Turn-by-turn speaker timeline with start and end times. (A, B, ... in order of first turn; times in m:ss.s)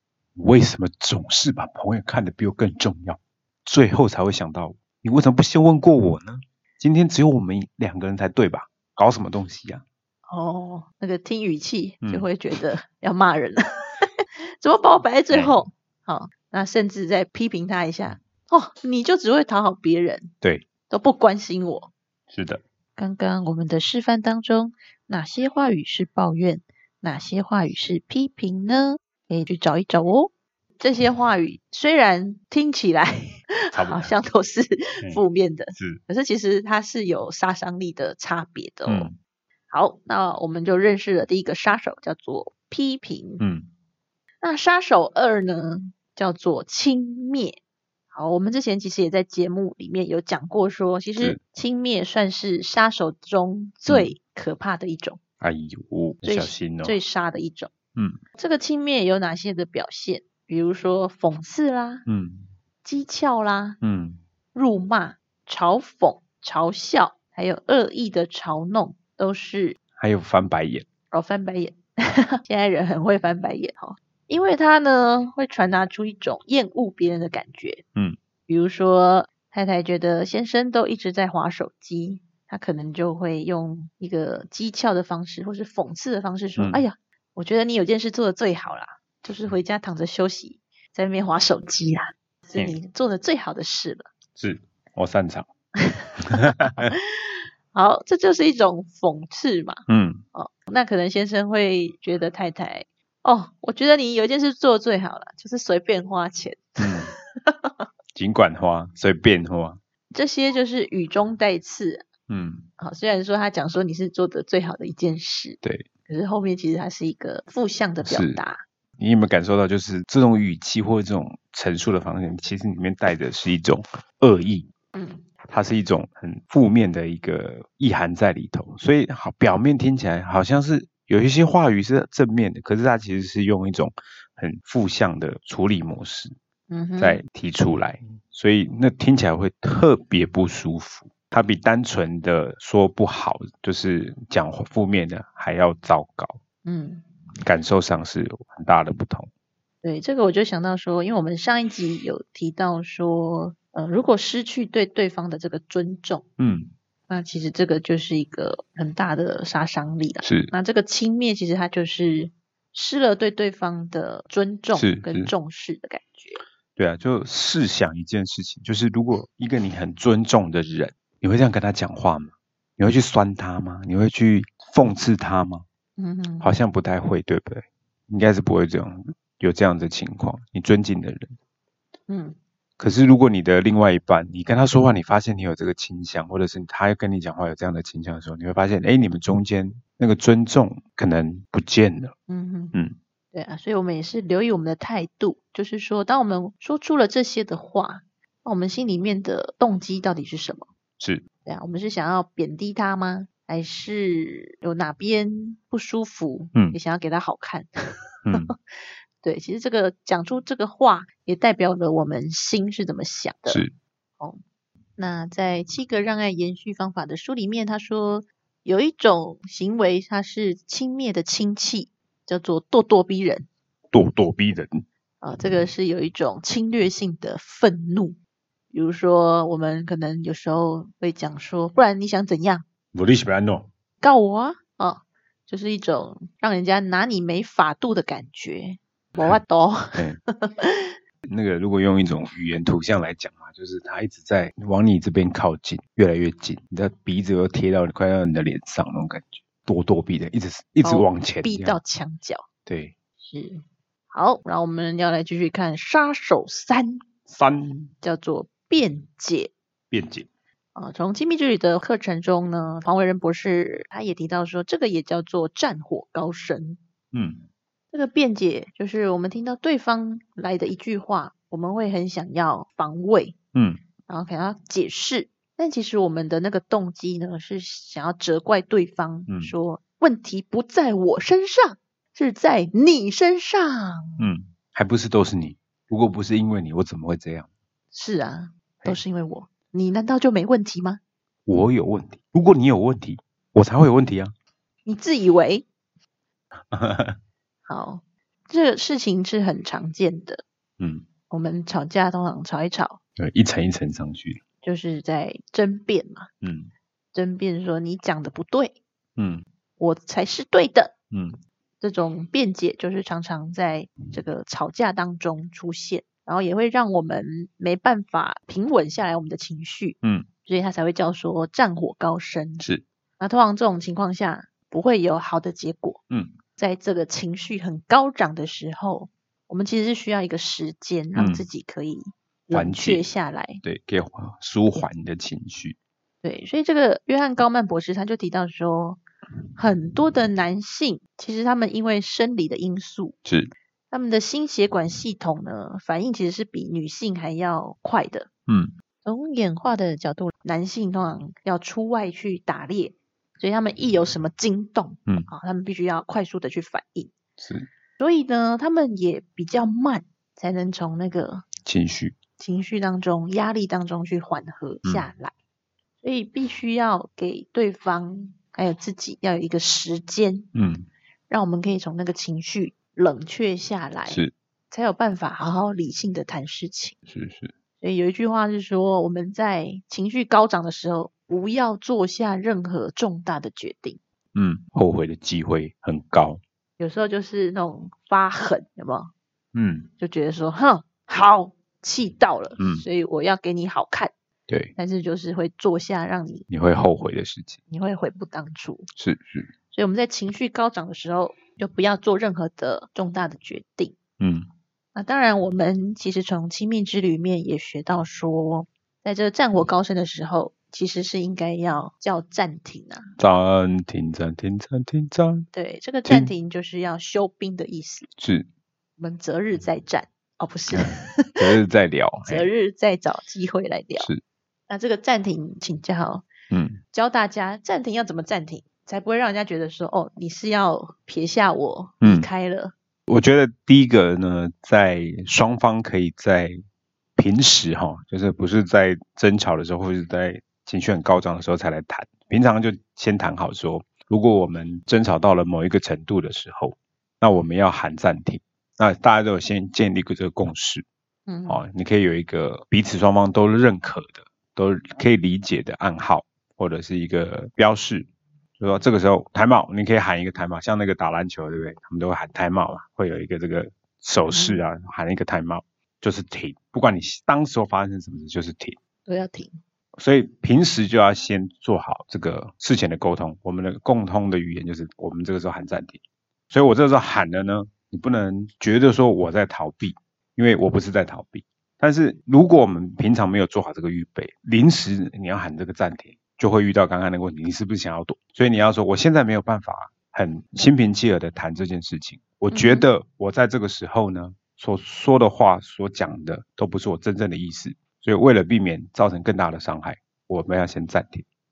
0:00.4-0:09.8 A
0:10.3-0:20.3 B
0:12.0-0:12.3 A
0:15.3-0:15.6 A
0:20.9-0:21.9 B
0:22.3-0:22.6 A
0:23.0-0:39.1 B
0:33.7-0:34.2 A
0:35.7-0:36.0 A
0:38.9-0:39.2 A
0:39.7-0:43.4 B
0:43.4-0:43.7 A
0:44.4-0:47.6 B
0:48.1-0:55.2 B
0:53.9-0:54.2 A
0:55.4-0:57.0 A
0:56.2-0:57.7 B
0:58.4-1:02.0 B
1:02.1-1:02.5 A
1:02.8-1:03.8 B
1:03.8-1:04.2 A
1:04.5-1:09.8 B
1:10.0-1:10.9 A
1:11.1-1:17.8 B
1:18.5-1:34.1 B
1:26.6-1:26.8 A
1:34.4-1:35.5 A
1:35.8-1:39.8 B
1:36.3-1:36.9 A
1:39.9-1:40.2 A
1:40.3-1:47.8 B
1:46.8-1:47.1 A
1:48.2-1:49.8 A
1:50.1-1:52.1 B
1:52.3-1:52.7 A
1:52.8-1:58.6 B
1:58.0-1:58.4 A
1:59.0-2:04.7 A
2:05.0-2:05.3 B
2:05.5-2:16.4 A
2:16.7-2:17.2 B
2:17.0-2:26.4 A
2:26.6-2:27.0 B
2:27.4-2:29.3 A
2:29.8-2:36.2 B
2:36.4-2:36.7 A
2:37.1-2:46.4 B
2:40.2-2:40.5 A
2:44.7-2:45.3 A
2:46.8-2:55.6 A
2:56.0-2:56.5 B
2:56.4-3:01.4 A
3:02.1-3:02.4 B
3:02.8-3:12.1 A
3:12.3-3:12.8 B
3:13.3-3:20.7 B
3:21.0-3:21.3 A
3:21.4-3:27.7 B
3:28.3-3:28.5 A
3:29.2-3:33.6 B
3:33.5-3:33.7 A
3:35.0-3:43.5 B
3:43.9-3:44.8 A
3:45.2-3:48.2 B
3:48.7-3:52.6 B
3:52.9-3:53.7 A
3:54.0-4:01.0 B
4:01.2-4:11.8 A
4:10.8-4:12.5 B
4:12.7-4:12.9 A
4:13.2-4:17.0 B
4:17.3-4:17.9 A
4:18.0-4:19.5 B
4:19.9-4:20.3 A
4:20.8-4:26.8 B
4:27.1-4:27.4 A
4:27.9-4:33.4 B
4:33.5-4:33.8 A
4:34.1-4:44.2 B
4:39.3-4:39.5 A
4:44.2-4:47.5 A
4:47.9-4:51.0 B
4:51.5-4:54.3 A
4:54.9-4:55.7 B
4:56.7-4:57.2 A
4:57.7-5:00.4 B
5:00.8-5:01.0 A
5:01.3-5:03.0 B
5:03.2-5:04.4 A
5:04.6-5:06.3 B
5:06.4-5:06.7 A
5:07.1-5:08.8 B
5:09.2-5:09.4 A
5:09.8-5:10.9 B
5:11.1-5:11.4 A
5:11.8-5:22.7 B
5:23.2-5:26.0 B
5:26.1-5:26.4 A
5:26.6-5:33.6 B
5:31.2-5:31.4 A
5:32.5-5:33.1 A
5:33.6-5:35.8 A
5:36.2-5:39.0 B
5:39.6-5:43.2 B
5:43.2-5:43.5 A
5:43.9-5:48.3 B
5:48.5-5:48.7 A
5:49.0-5:57.1 B
5:57.4-5:57.7 A
5:58.0-6:01.5 B
6:01.6-6:02.2 A
6:02.4-6:05.3 B
6:06.0-6:10.5 B
6:10.6-6:10.9 A
6:11.3-6:17.0 B
6:14.1-6:14.3 A
6:17.1-6:17.5 A
6:17.8-6:24.0 B
6:24.4-6:26.4 A
6:26.8-6:29.1 B
6:29.5-6:29.9 A
6:30.0-6:34.1 B
6:32.6-6:32.8 A
6:34.8-6:36.5 B
6:36.5-6:37.6 A
6:37.7-6:38.9 B
6:39.0-6:39.5 A
6:39.7-6:44.0 B
6:44.2-6:44.5 A
6:45.0-6:53.1 B
6:53.2-6:55.5 A
6:55.5-6:58.1 B
6:56.1-6:56.3 A
6:58.2-6:58.5 A
6:59.0-7:01.4 B
7:00.7-7:02.5 A
7:02.2-7:04.1 B
7:04.7-7:06.3 B
7:06.5-7:06.8 A
7:06.9-7:12.7 B
7:12.0-7:12.3 A
7:13.1-7:16.6 A
7:17.2-7:30.8 A
7:31.3-7:31.6 B
7:31.5-7:48.8 A
7:44.3-7:44.6 B
7:49.1-7:49.6 B
7:50.0-7:56.0 A
7:56.5-8:21.3 A
8:12.5-8:12.9 B